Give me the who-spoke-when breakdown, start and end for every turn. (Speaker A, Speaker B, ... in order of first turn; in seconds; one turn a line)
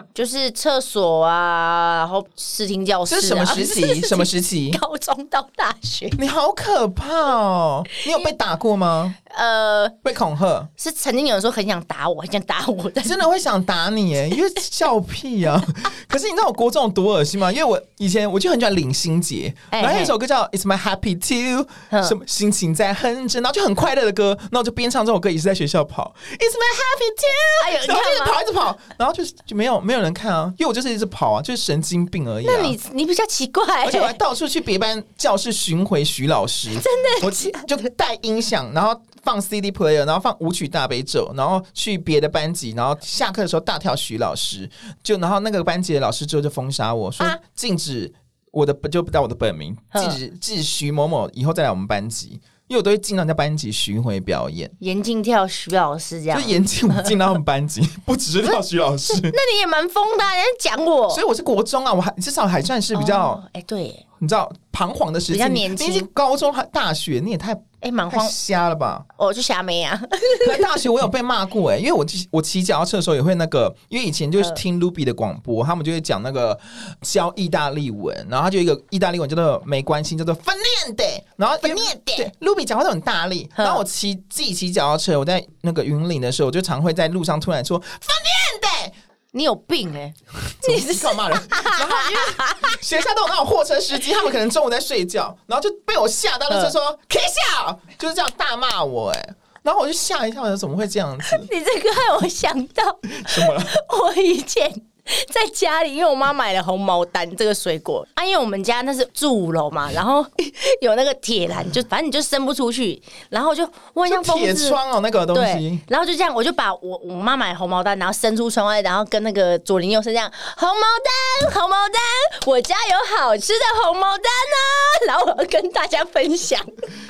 Speaker A: 0.1-6.2
Speaker B: 3.1-4.8
Speaker B: 6.2-9.2
Speaker A: 8.0-8.3
Speaker A: 9.3-10.0
Speaker B: 10.0-10.7
Speaker A: 10.8-13.2
Speaker B: 13.0-32.8
Speaker A: 19.7-20.1
Speaker A: 21.9-22.2
Speaker A: 27.6-28.4
Speaker A: 32.4-34.2
Speaker B: 33.8-54.7
Speaker A: 36.7-37.7
Speaker A: 49.9-50.2
Speaker A: 54.8-57.1
Speaker B: 56.3-59.4
Speaker A: 59.1-61.2
Speaker B: 61.1-63.4
Speaker A: 62.9-64.0
Speaker B: 64.2-69.1
Speaker A: 65.3-66.1
Speaker A: 67.8-68.3
Speaker A: 69.2-70.7
Speaker B: 70.4-89.0
Speaker A: 81.6-82.3
Speaker A: 83.6-83.8
Speaker A: 89.3-92.8
Speaker B: 90.5-101.5
Speaker A: 101.3-114.8
Speaker B: 103.1-103.7
Speaker B: 114.1-115.8
Speaker A: 115.3-126.7